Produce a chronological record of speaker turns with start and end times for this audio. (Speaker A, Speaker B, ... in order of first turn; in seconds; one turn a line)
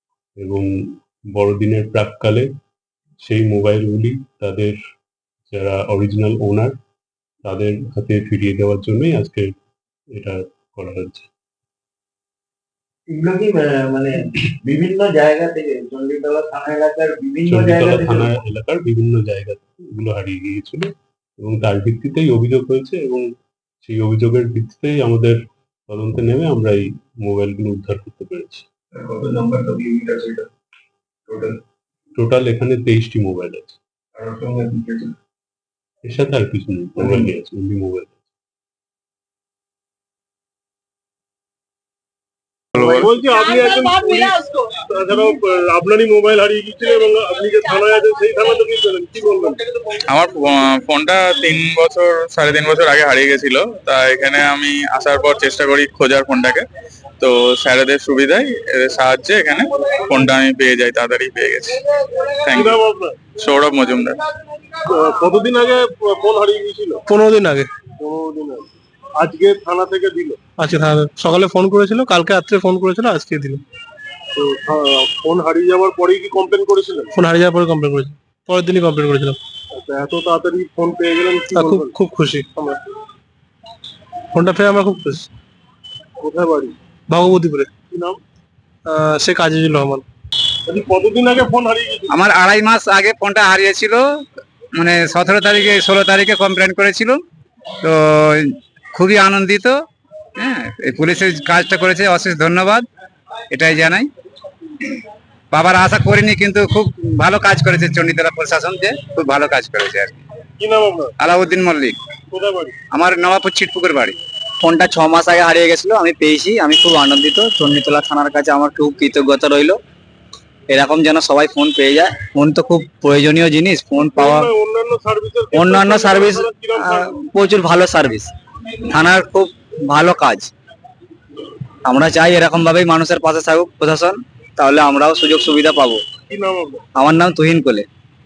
Speaker A: 0.4-0.7
Speaker A: 1.3-2.5
Speaker A: 3.2-4.8
Speaker A: 5.5-6.8
Speaker A: 7.4-9.5
Speaker A: 10.2-11.3
Speaker B: 13.1-18.3
Speaker A: 17.5-23.2
Speaker A: 23.8-25.4
Speaker A: 25.9-28.7
Speaker A: 32.2-33.8
Speaker A: 36.0-38.2
Speaker C: 42.8-49.6
Speaker D: 42.8-43.1
Speaker D: 50.1-56.7
Speaker D: 57.2-61.8
Speaker D: 62.4-62.8
Speaker C: 62.5-63.2
Speaker D: 63.4-64.2
Speaker C: 64.8-67.0
Speaker E: 67.1-67.7
Speaker C: 68.0-70.4
Speaker E: 70.6-73.6
Speaker C: 74.3-77.1
Speaker E: 77.1-79.4
Speaker C: 79.7-82.0
Speaker E: 81.5-82.5
Speaker E: 84.3-85.3
Speaker C: 86.2-86.8
Speaker E: 87.1-87.7
Speaker C: 87.9-88.2
Speaker E: 88.8-90.0
Speaker C: 90.7-92.2
Speaker F: 92.1-94.0
Speaker F: 94.8-97.2
Speaker F: 97.8-99.8
Speaker F: 100.4-102.8
Speaker F: 103.5-104.1
Speaker F: 105.5-110.2
Speaker C: 110.6-111.1
Speaker F: 111.2-112.0
Speaker C: 112.3-112.8
Speaker F: 112.9-114.2
Speaker G: 114.6-119.8
Speaker G: 120.7-124.5
Speaker C: 124.0-127.1
Speaker G: 125.5-128.3
Speaker G: 128.8-130.5
Speaker G: 131.8-136.0
Speaker C: 136.3-136.8
Speaker G: 136.9-137.9